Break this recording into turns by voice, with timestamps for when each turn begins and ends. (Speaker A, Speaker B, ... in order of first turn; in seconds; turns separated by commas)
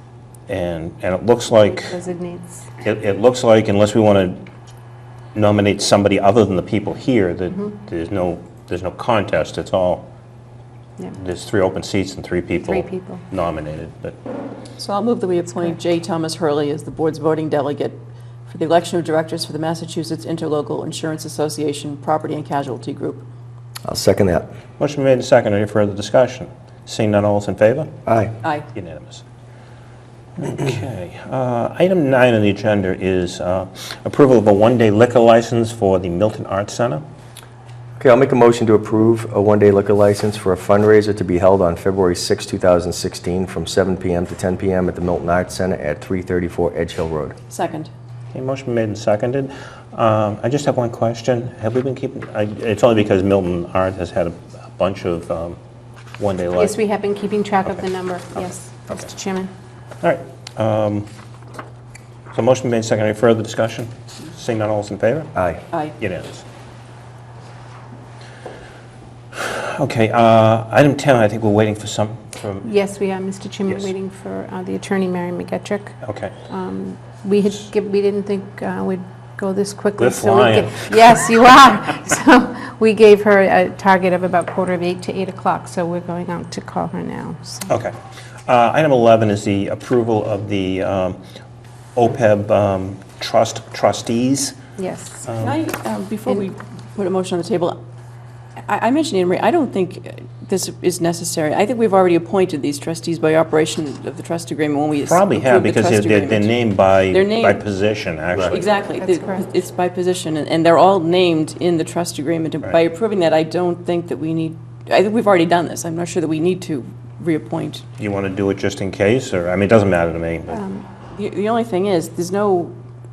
Speaker A: 0.5-2.0, Speaker B: 1.9-2.7, Speaker A: 2.8-4.5, Speaker A: 5.3-10.1, Speaker A: 11.1-14.2, Speaker B: 12.6-13.2, Speaker C: 14.8-23.2, Speaker D: 23.9-24.5, Speaker A: 24.8-27.9, Speaker D: 28.1-28.3, Speaker A: 28.7-29.2, Speaker A: 30.4-37.0, Speaker D: 38.0-47.4, Speaker C: 47.5-47.9, Speaker A: 48.3-55.6, Speaker A: 56.2-56.8, Speaker B: 56.5-59.5, Speaker A: 58.4-59.0, Speaker A: 60.0-61.1, Speaker A: 62.3-65.3, Speaker D: 65.3-65.6, Speaker A: 66.0-66.4, Speaker A: 69.3-72.7, Speaker B: 72.6-76.0, Speaker A: 73.7-73.9, Speaker A: 76.0-76.3, Speaker B: 76.5-87.7, Speaker A: 80.0-81.7, Speaker A: 87.7-88.0, Speaker A: 88.5-91.2, Speaker A: 92.0-94.6, Speaker B: 94.8-95.3, Speaker A: 95.3-95.6, Speaker C: 95.4-97.8, Speaker C: 98.7-107.6, Speaker A: 105.0-108.6, Speaker C: 108.5-117.8, Speaker B: 109.0-109.5, Speaker A: 118.0-120.6, Speaker B: 120.5-120.8, Speaker C: 121.1-122.8